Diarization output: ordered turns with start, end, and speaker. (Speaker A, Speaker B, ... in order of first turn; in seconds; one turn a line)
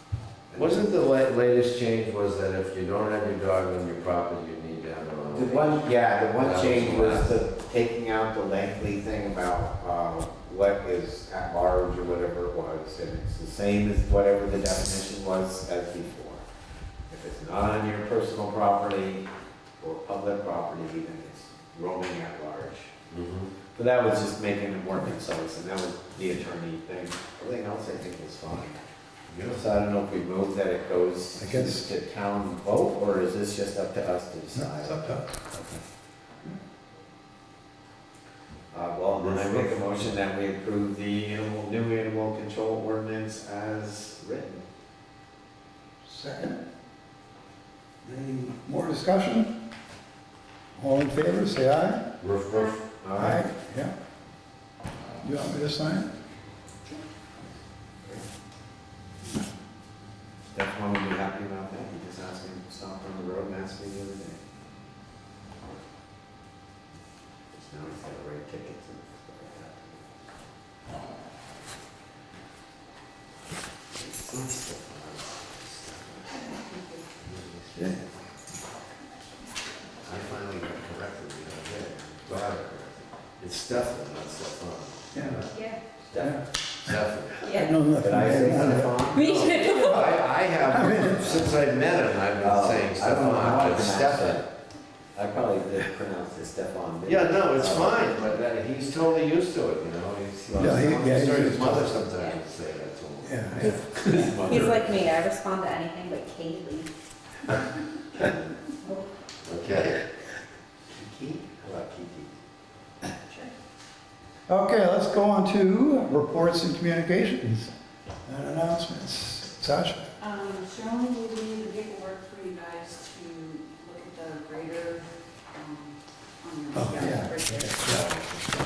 Speaker A: 0.5-0.8
Speaker B: 0.5-7.4
Speaker A: 5.3-16.4
Speaker A: 17.1-19.3
Speaker A: 19.8-22.9
Speaker B: 23.1-23.6
Speaker A: 23.6-28.8
Speaker B: 29.3-29.6
Speaker A: 29.5-35.0
Speaker C: 31.4-31.8
Speaker C: 34.5-35.6
Speaker A: 38.7-44.6
Speaker B: 39.2-39.7
Speaker C: 46.0-46.6
Speaker C: 48.0-49.5
Speaker C: 50.8-52.0
Speaker B: 52.2-52.8
Speaker A: 52.9-53.4
Speaker C: 53.1-53.9
Speaker C: 55.2-56.1
Speaker A: 60.5-64.4
Speaker A: 67.5-70.0
Speaker B: 74.0-76.5
Speaker D: 76.7-77.0
Speaker B: 77.2-78.0
Speaker C: 77.8-78.0
Speaker B: 80.0-85.6
Speaker A: 82.0-82.7
Speaker C: 85.1-85.4
Speaker E: 85.5-85.8
Speaker A: 86.0-86.4
Speaker C: 86.2-86.5
Speaker B: 86.8-87.5
Speaker E: 87.4-87.7
Speaker C: 87.5-89.1
Speaker A: 88.0-89.2
Speaker E: 89.0-90.2
Speaker B: 89.2-94.5
Speaker C: 90.6-91.5
Speaker A: 92.4-94.4
Speaker A: 95.2-98.4
Speaker B: 97.0-103.6
Speaker A: 100.5-101.2
Speaker C: 100.6-102.0
Speaker C: 103.2-104.4
Speaker A: 103.6-105.0
Speaker E: 103.6-106.9
Speaker B: 109.5-110.0
Speaker A: 110.9-112.3
Speaker C: 114.5-117.7
Speaker C: 118.3-120.1
Speaker D: 120.2-128.1
Speaker C: 126.7-128.1